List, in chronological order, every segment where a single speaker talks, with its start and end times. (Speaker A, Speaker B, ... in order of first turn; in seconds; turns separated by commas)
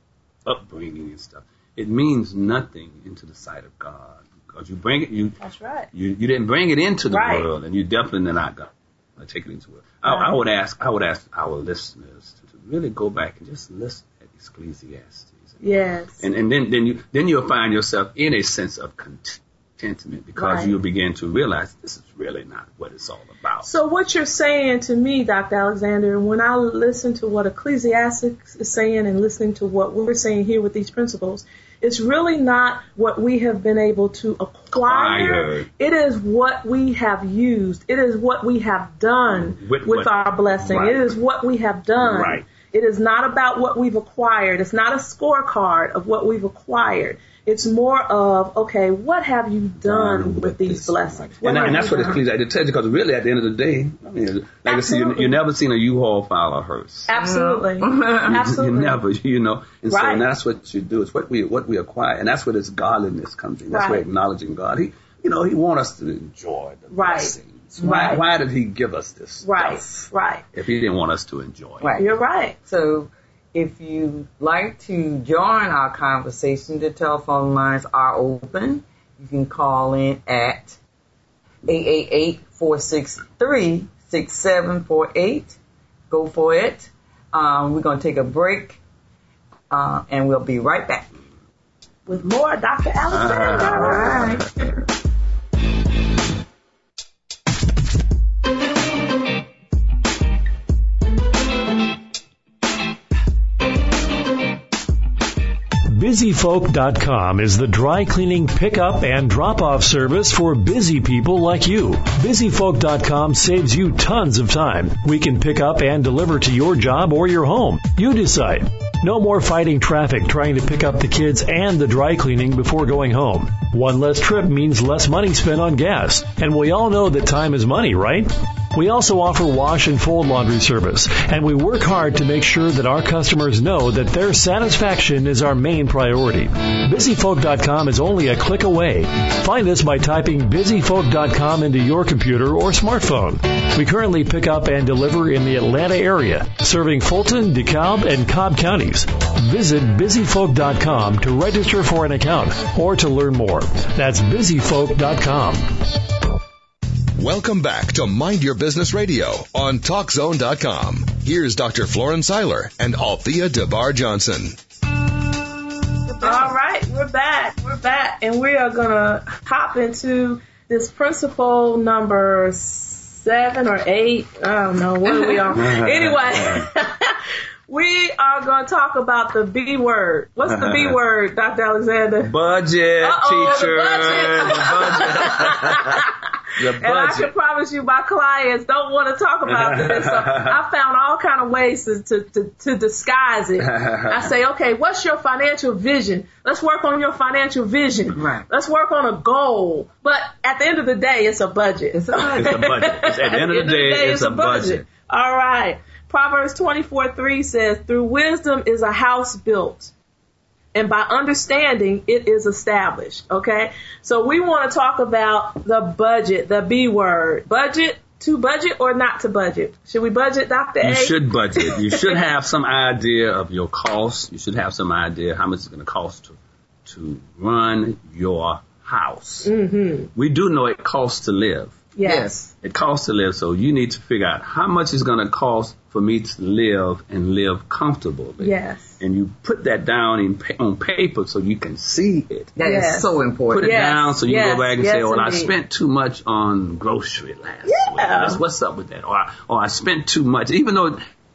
Speaker A: 0.4-5.4, Speaker B: 5.4-5.9, Speaker A: 5.9-15.6, Speaker B: 7.1-7.5, Speaker B: 10.1-10.3, Speaker B: 15.6-16.2, Speaker A: 16.2-23.7, Speaker B: 20.4-20.8, Speaker B: 23.6-52.2, Speaker A: 34.7-35.7, Speaker A: 39.3-41.1, Speaker A: 42.0-42.4, Speaker A: 49.8-57.1, Speaker B: 54.6-55.4, Speaker B: 57.1-59.0, Speaker C: 57.2-58.3, Speaker A: 58.1-71.9, Speaker B: 59.9-60.2, Speaker B: 63.7-64.0, Speaker B: 66.9-68.2, Speaker C: 67.8-68.2, Speaker B: 69.4-70.4, Speaker C: 71.8-80.8, Speaker B: 72.0-72.5, Speaker C: 81.7-85.6, Speaker C: 86.1-88.8, Speaker C: 89.7-91.1, Speaker B: 92.1-94.4, Speaker A: 93.1-94.4, Speaker C: 93.7-94.4, Speaker D: 105.9-155.7, Speaker E: 157.1-164.6, Speaker C: 166.1-166.5, Speaker B: 166.2-182.3, Speaker A: 175.1-176.7, Speaker A: 180.5-180.9, Speaker A: 182.2-186.0, Speaker B: 183.0-186.1, Speaker A: 186.6-187.3, Speaker B: 186.8-209.9, Speaker A: 189.4-190.6, Speaker A: 193.6-194.3, Speaker C: 198.1-198.4, Speaker C: 201.9-202.6, Speaker A: 202.3-204.8, Speaker B: 210.7-222.2, Speaker A: 220.8-229.5, Speaker B: 229.4-230.1, Speaker A: 230.1-231.8, Speaker B: 231.9-232.4, Speaker C: 232.0-232.5, Speaker A: 232.6-242.5, Speaker B: 238.4-238.9, Speaker C: 242.6-243.8, Speaker B: 242.6-245.5, Speaker A: 243.5-251.0, Speaker B: 247.6-248.4